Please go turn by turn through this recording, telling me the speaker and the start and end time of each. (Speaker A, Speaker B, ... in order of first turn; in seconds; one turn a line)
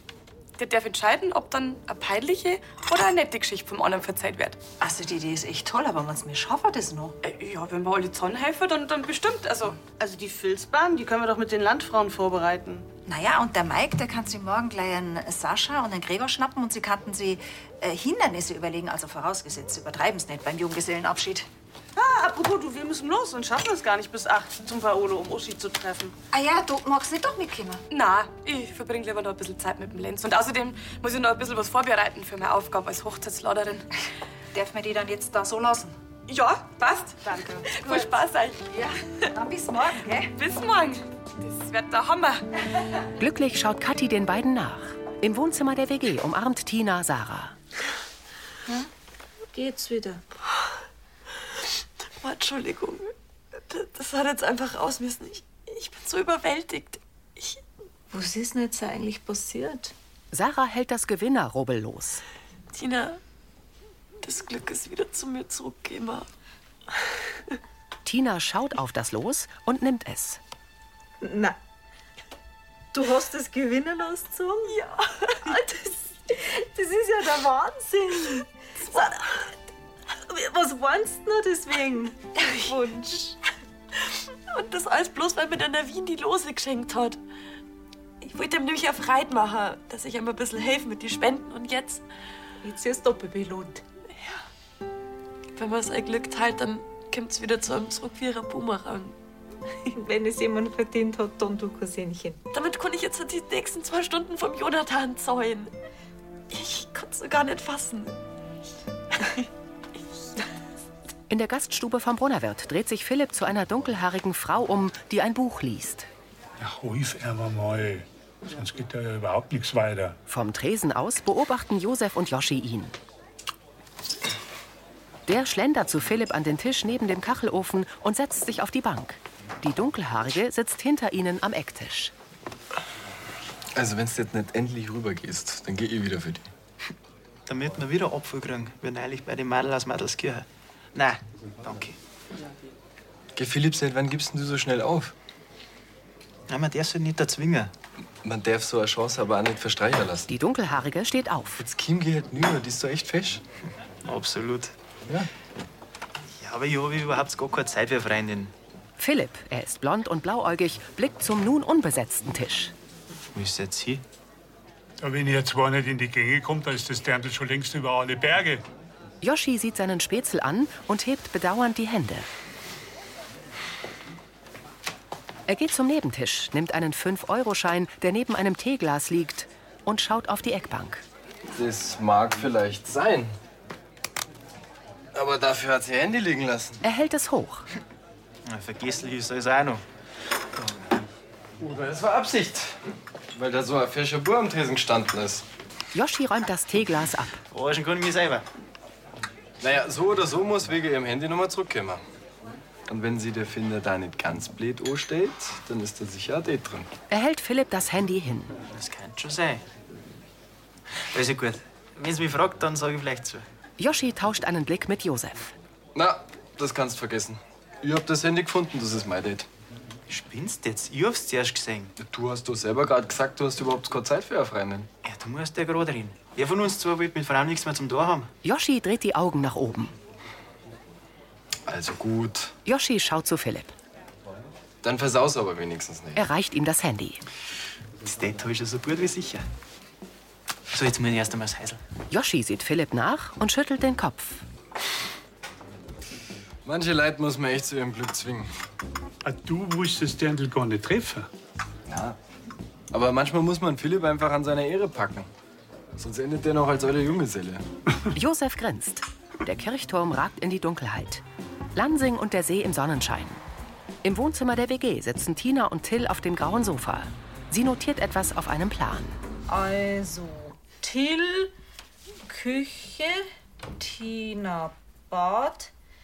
Speaker A: 0.6-4.6
Speaker B: 4.8-7.1
Speaker A: 7.2-9.8
Speaker C: 10.0-12.9
Speaker B: 13.1-21.5
Speaker C: 21.9-26.1
Speaker B: 26.3-27.8
Speaker A: 27.9-33.9
Speaker B: 34.5-36.0
Speaker A: 36.3-39.3
Speaker B: 38.7-40.3
Speaker A: 40.3-42.5
Speaker D: 43.2-47.5
Speaker E: 49.5-50.2
Speaker F: 52.2-57.6
Speaker E: 58.1-59.9
Speaker D: 60.3-62.2
Speaker F: 62.7-63.2
Speaker F: 64.2-66.3
Speaker D: 68.0-70.4
Speaker E: 71.2-71.5
Speaker E: 72.9-74.8
Speaker E: 75.4-79.5
Speaker E: 80.2-83.3
Speaker F: 82.4-82.7
Speaker F: 84.5-87.2
Speaker F: 88.2-92.0
Speaker E: 92.6-93.8
Speaker F: 94.1-94.4
Speaker F: 95.5-99.1
Speaker E: 99.8-102.4
Speaker F: 102.5-105.7
Speaker F: 106.5-108.2
Speaker D: 111.3-116.1
Speaker G: 116.6-120.2
Speaker D: 120.3-122.9
Speaker D: 125.3-132.1
Speaker H: 133.7-136.5
Speaker I: 137.5-142.0
Speaker H: 143.3-145.1
Speaker I: 146.5-147.7
Speaker H: 148.2-150.3
Speaker D: 150.3-151.6
Speaker H: 151.6-153.4
Speaker I: 154.0-154.7
Speaker I: 156.4-158.5
Speaker D: 159.0-162.7
Speaker I: 163.3-164.0
Speaker G: 165.0-168.6
Speaker D: 169.2-172.3
Speaker D: 175.5-181.0
Speaker H: 181.5-183.3
Speaker H: 185.1-186.8
Speaker D: 186.8-187.7
Speaker I: 188.4-189.8
Speaker H: 191.6-192.8
Speaker H: 193.3-195.4
Speaker D: 195.9-197.4
Speaker I: 197.5-198.4
Speaker H: 199.6-202.0
Speaker H: 202.9-206.9
Speaker D: 207.1-208.5
Speaker I: 208.7-209.6
Speaker I: 211.1-213.4
Speaker D: 213.8-215.5
Speaker H: 215.9-219.5
Speaker I: 220.1-221.9
Speaker H: 222.0-224.9
Speaker I: 225.0-228.3
Speaker D: 228.4-229.9
Speaker H: 231.7-232.5
Speaker D: 232.6-233.7
Speaker H: 234.8-236.2
Speaker D: 236.2-237.2
Speaker I: 238.0-239.4
Speaker I: 240.7-241.8
Speaker D: 242.1-244.4
Speaker H: 246.6-248.5
Speaker G: 249.2-251.3
Speaker H: 251.8-252.2
Speaker H: 252.9-255.3
Speaker H: 255.9-257.6
Speaker D: 258.1-261.2
Speaker D: 261.7-263.4
Speaker D: 264.0-269.2
Speaker E: 269.5-271.5
Speaker E: 272.3-275.7